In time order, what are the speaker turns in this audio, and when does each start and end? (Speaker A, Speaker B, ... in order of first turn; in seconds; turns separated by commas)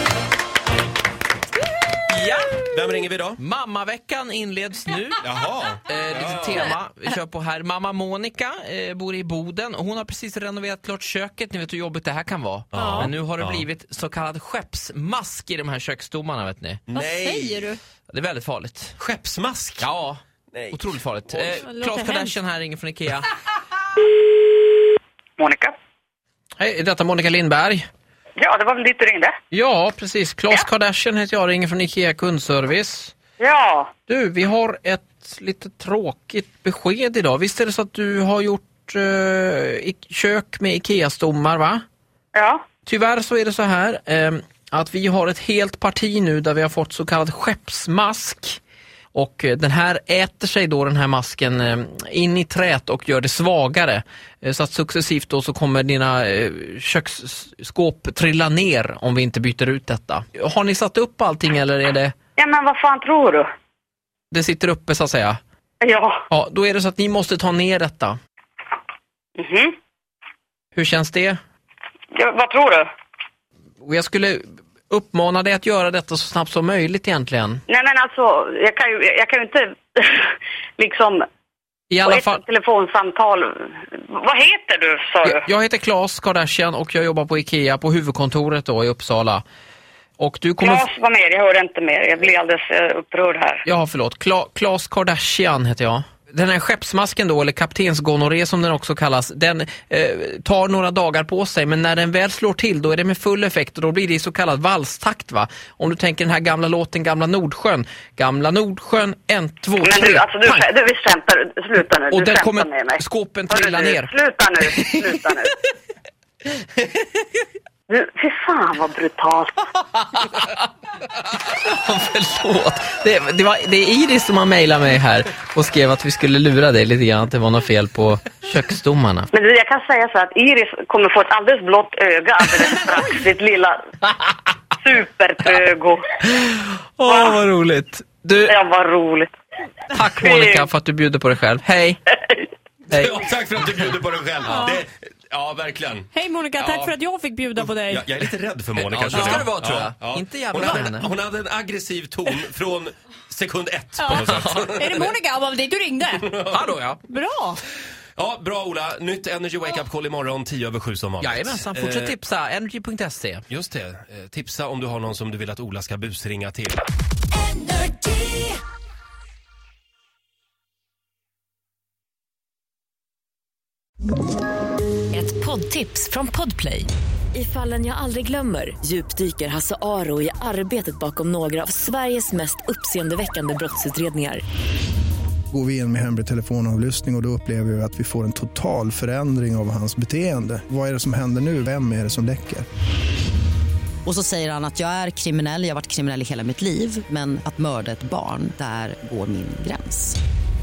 Speaker A: 2.1-2.6, Speaker B: 2.7-3.4, Speaker A: 3.4-5.2, Speaker B: 5.2-6.7, Speaker A: 5.9-16.8, Speaker B: 12.7-13.7, Speaker C: 12.8-13.1, Speaker B: 16.9-17.7, Speaker C: 16.9-17.8, Speaker A: 18.1-19.0, Speaker B: 19.0-19.9, Speaker A: 19.8-20.2, Speaker B: 20.5-21.6, Speaker A: 20.7-23.3, Speaker C: 21.5-22.4, Speaker D: 25.4-25.7, Speaker A: 26.6-27.9, Speaker D: 28.4-29.4, Speaker A: 29.5-33.1, Speaker D: 33.4-33.9, Speaker A: 34.1-41.8, Speaker D: 42.4-42.6, Speaker A: 42.9-48.6, Speaker A: 49.1-62.1, Speaker D: 62.4-63.5, Speaker A: 64.3-65.4, Speaker D: 65.8-66.2, Speaker A: 66.3-68.2, Speaker D: 69.4-69.7, Speaker A: 70.8-71.4, Speaker D: 72.1-72.9, Speaker A: 73.8-77.6, Speaker D: 77.7-81.2, Speaker A: 81.9-82.4, Speaker D: 82.0-85.5, Speaker A: 85.2-89.4, Speaker A: 90.2-90.9, Speaker D: 90.6-93.6, Speaker A: 93.7-110.7, Speaker D: 109.8-115.5, Speaker A: 112.1-114.1, Speaker D: 117.9-119.6, Speaker A: 120.0-120.7, Speaker A: 121.5-129.3, Speaker D: 129.3-133.8, Speaker D: 134.8-136.0, Speaker A: 136.3-138.5, Speaker D: 137.0-137.4, Speaker D: 138.5-139.3, Speaker A: 139.9-142.0, Speaker D: 140.2-140.7, Speaker B: 142.9-146.1, Speaker C: 144.5-144.8, Speaker C: 146.1-148.1, Speaker A: 146.6-146.9, Speaker B: 147.6-155.1, Speaker A: 148.8-151.1, Speaker C: 154.0-156.3, Speaker A: 154.1-155.1, Speaker B: 156.2-156.6, Speaker A: 156.5-157.0, Speaker C: 157.1-157.6, Speaker B: 158.2-162.2, Speaker A: 161.2-163.4, Speaker B: 163.5-166.8, Speaker E: 167.6-168.5, Speaker E: 175.1-184.4, Speaker F: 185.5-192.7, Speaker G: 194.1-200.2